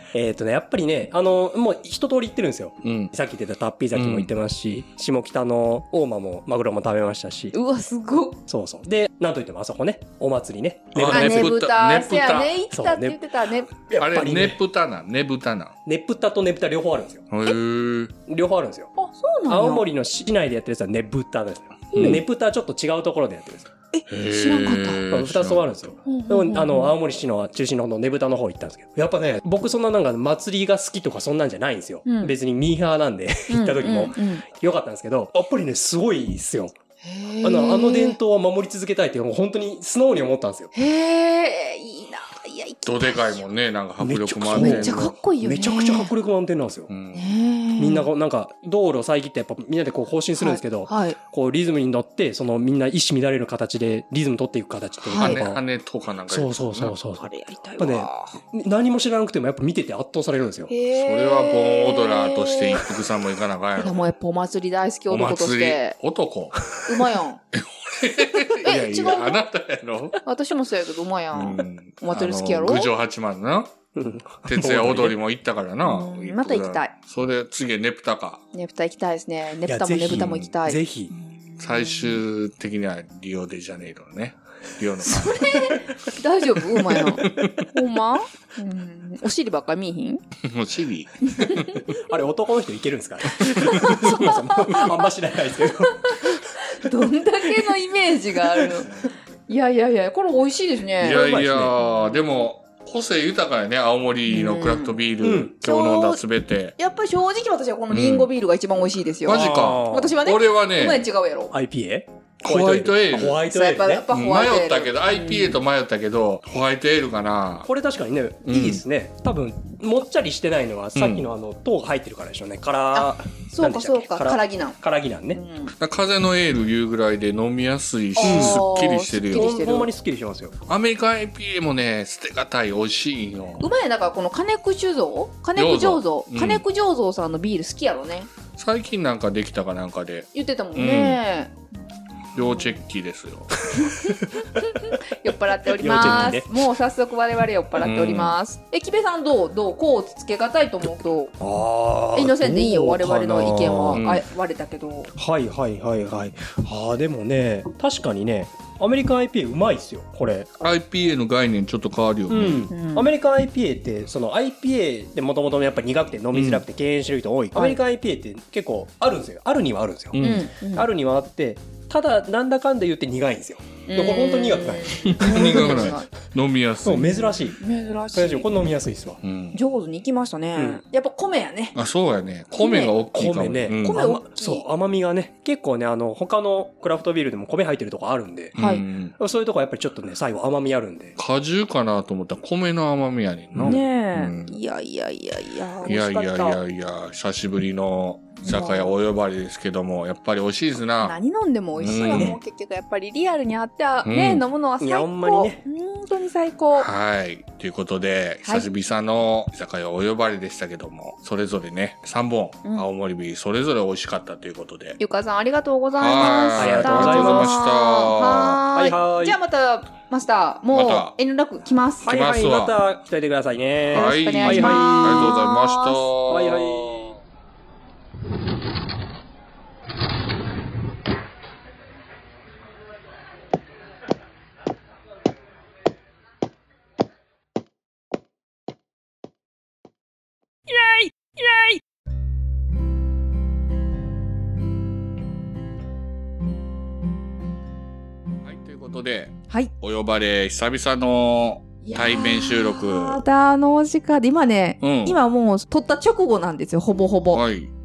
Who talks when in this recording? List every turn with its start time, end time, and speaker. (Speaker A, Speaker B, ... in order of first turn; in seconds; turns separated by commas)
Speaker A: 0.1-7.5, Speaker B: 2.8-3.1, Speaker B: 3.9-4.3, Speaker C: 7.5-8.4, Speaker A: 8.5-11.5, Speaker B: 10.9-12.5, Speaker C: 11.1-13.7, Speaker A: 12.7-13.2, Speaker A: 13.7-14.6, Speaker B: 14.0-15.7, Speaker A: 15.8-17.3, Speaker B: 17.3-18.1, Speaker A: 18.3-18.9, Speaker C: 18.9-19.8, Speaker A: 19.5-23.7, Speaker B: 21.9-22.2, Speaker C: 23.9-25.0, Speaker B: 24.1-25.9, Speaker A: 25.1-36.7, Speaker C: 26.1-26.9, Speaker C: 32.0-32.3, Speaker C: 33.5-34.4, Speaker C: 37.0-38.2, Speaker A: 37.4-40.7, Speaker C: 40.7-43.4, Speaker B: 42.9-45.1, Speaker A: 44.0-46.9, Speaker C: 44.5-46.1, Speaker B: 46.9-47.4, Speaker C: 47.1-48.1, Speaker A: 47.8-55.6, Speaker C: 50.4-51.2, Speaker C: 55.0-55.4, Speaker B: 55.2-57.0, Speaker A: 56.3-60.7, Speaker C: 57.2-58.4, Speaker C: 60.7-62.9, Speaker B: 60.9-64.1, Speaker C: 63.8-65.9, Speaker B: 65.1-66.6, Speaker C: 66.8-67.4, Speaker B: 67.5-70.2, Speaker C: 68.6-69.4, Speaker C: 70.2-72.9, Speaker B: 71.3-73.8, Speaker A: 73.9-75.2, Speaker B: 74.4-78.4, Speaker C: 75.8-76.9, Speaker C: 78.5-82.2, Speaker A: 79.7-81.1, Speaker B: 81.6-85.8, Speaker C: 85.0-90.2, Speaker B: 87.2-87.5, Speaker B: 90.4-91.8, Speaker C: 91.2-91.9, Speaker A: 91.9-96.5, Speaker B: 93.5-94.0, Speaker C: 93.6-94.9, Speaker C: 95.6-98.9, Speaker A: 98.4-98.9, Speaker C: 99.5-101.2, Speaker B: 101.0-106.7, Speaker A: 101.0-101.8, Speaker C: 104.3-105.0, Speaker A: 105.2-105.6, Speaker C: 105.6-106.2, Speaker C: 106.8-111.5, Speaker B: 107.9-108.3, Speaker B: 109.2-111.0, Speaker A: 109.2-110.2, Speaker A: 111.5-114.0, Speaker B: 112.4-113.4, Speaker C: 113.5-115.6, Speaker B: 114.1-117.7, Speaker A: 117.7-125.4, Speaker B: 118.4-118.8, Speaker B: 120.9-121.3, Speaker C: 122.9-124.8, Speaker C: 125.3-125.7, Speaker B: 125.8-129.6, Speaker C: 128.2-129.9, Speaker A: 128.2-128.6, Speaker A: 129.2-130.5, Speaker B: 130.7-133.7, Speaker C: 133.6-138.3, Speaker B: 135.5-136.6, Speaker B: 138.6-141.2, Speaker C: 140.3-141.7, Speaker B: 142.3-143.6, Speaker C: 142.3-142.8, Speaker C: 143.8-151.3, Speaker A: 145.7-146.6, Speaker B: 146.0-146.3, Speaker B: 147.8-148.4, Speaker A: 151.4-154.0, Speaker C: 152.1-155.1, Speaker B: 153.9-154.2, Speaker A: 155.1-160.5, Speaker B: 160.6-162.7, Speaker A: 162.3-170.2, Speaker C: 162.7-163.1, Speaker B: 166.3-166.6, Speaker B: 170.1-170.5, Speaker C: 170.2-170.9, Speaker A: 170.7-176.0, Speaker C: 173.9-176.1, Speaker B: 175.0-177.2, Speaker A: 176.8-177.6, Speaker C: 177.5-178.5, Speaker A: 178.1-179.2, Speaker B: 179.2-179.6, Speaker C: 179.5-181.8, Speaker A: 180.6-180.8, Speaker B: 181.7-184.1, Speaker C: 182.6-182.9, Speaker A: 183.1-188.6, Speaker C: 183.8-184.6, Speaker B: 188.6-189.1, Speaker C: 188.6-188.8, Speaker A: 189.2-191.2, Speaker B: 191.2-194.6, Speaker C: 193.6-196.6, Speaker B: 195.8-201.2, Speaker C: 198.4-198.9, Speaker C: 201.0-206.9, Speaker B: 201.8-202.4, Speaker B: 204.0-204.4, Speaker A: 204.8-205.6, Speaker B: 206.7-215.0, Speaker C: 215.0-222.1, Speaker B: 216.0-218.6, Speaker A: 216.5-217.5, Speaker A: 218.7-219.4, Speaker B: 220.7-221.1, Speaker A: 222.0-225.4, Speaker B: 222.1-222.8, Speaker B: 223.9-227.2, Speaker C: 223.9-226.1, Speaker A: 226.3-227.2, Speaker B: 248.4-253.2, Speaker C: 251.8-257.4, Speaker B: 254.8-255.2, Speaker B: 257.3-257.7